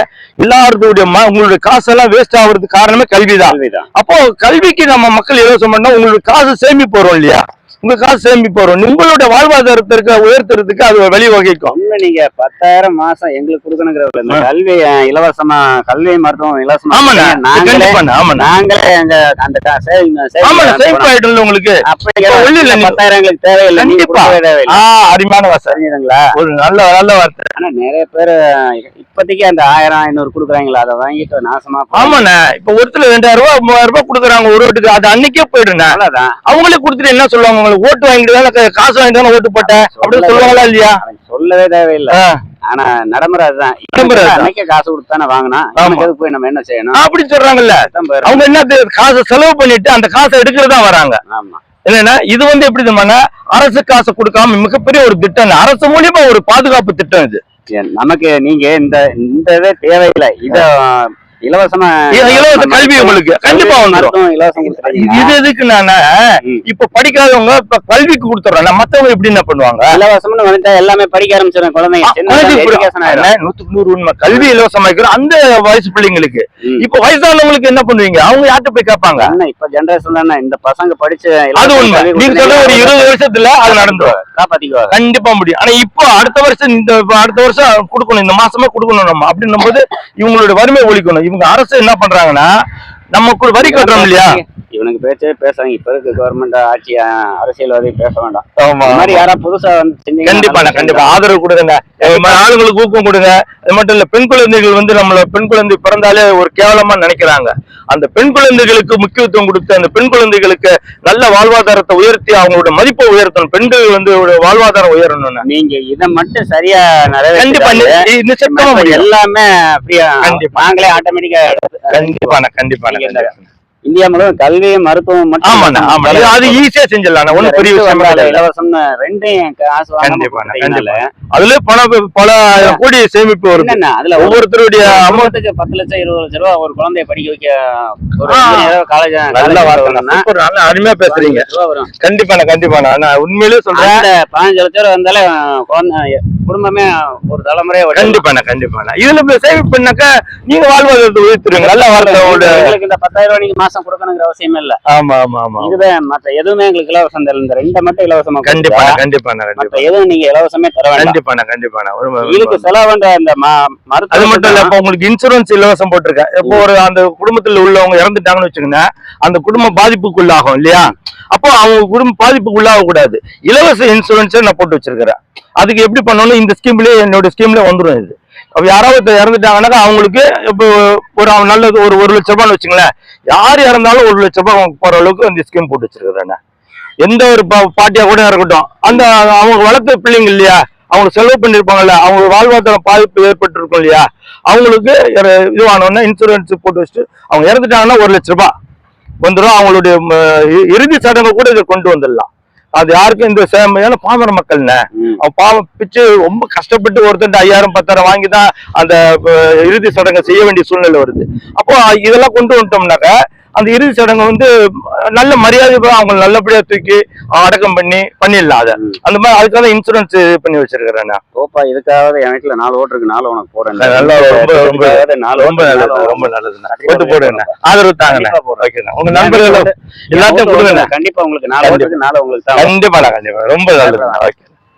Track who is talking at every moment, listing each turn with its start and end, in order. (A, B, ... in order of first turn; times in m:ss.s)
0:00.4-0:11.8 A
0:03.5-0:03.9 B
0:11.7-0:21.1 B
0:16.9-0:18.5 A
0:20.4-0:23.0 A
0:21.9-0:24.8 B
0:23.8-0:25.8 A
0:25.7-0:26.2 B
0:26.3-0:27.5 A
0:27.6-0:32.2 B
0:31.9-0:41.0 A
0:35.8-0:36.4 B
0:39.6-0:47.1 B
0:42.1-0:42.4 A
0:43.9-0:44.5 A
0:45.8-0:46.1 A
0:46.9-0:51.2 A
0:47.7-0:48.5 B
0:51.3-0:51.6 B
0:51.8-0:57.4 A
0:57.7-1:05.4 B
1:02.1-1:06.0 A
1:06.6-1:10.0 A
1:09.9-1:13.3 B
1:12.0-1:19.4 A
1:19.2-1:24.9 B
1:21.6-1:24.2 A
1:24.9-1:32.5 A
1:33.1-1:34.4 A
1:33.6-1:41.2 B
1:38.6-1:39.2 A
1:40.2-1:55.4 A
1:42.0-1:42.4 B
1:55.4-2:03.3 B
1:57.4-1:59.1 A
2:00.2-2:00.6 A
2:01.9-2:03.4 A
2:03.8-2:06.6 B
2:05.4-2:08.4 A
2:07.3-2:11.1 B
2:10.0-2:15.3 A
2:13.5-2:20.2 B
2:18.3-2:18.7 A
2:19.3-2:21.4 A
2:21.0-2:21.9 B
2:22.0-2:24.0 A
2:23.7-2:28.2 B
2:27.9-2:32.7 A
2:31.5-2:34.8 B
2:34.9-2:35.8 A
2:35.6-2:39.0 B
2:38.4-2:39.9 A
2:39.6-2:41.2 B
2:41.0-2:42.7 A
2:42.2-2:44.7 B
2:44.1-3:06.4 A
3:07.0-3:18.5 A
3:19.2-3:34.5 A
3:25.0-3:25.2 B
3:35.1-3:41.2 A
3:41.4-3:53.1 B
3:43.8-3:50.9 A
3:51.6-3:51.9 A
3:52.6-3:54.5 A
3:53.7-3:54.2 B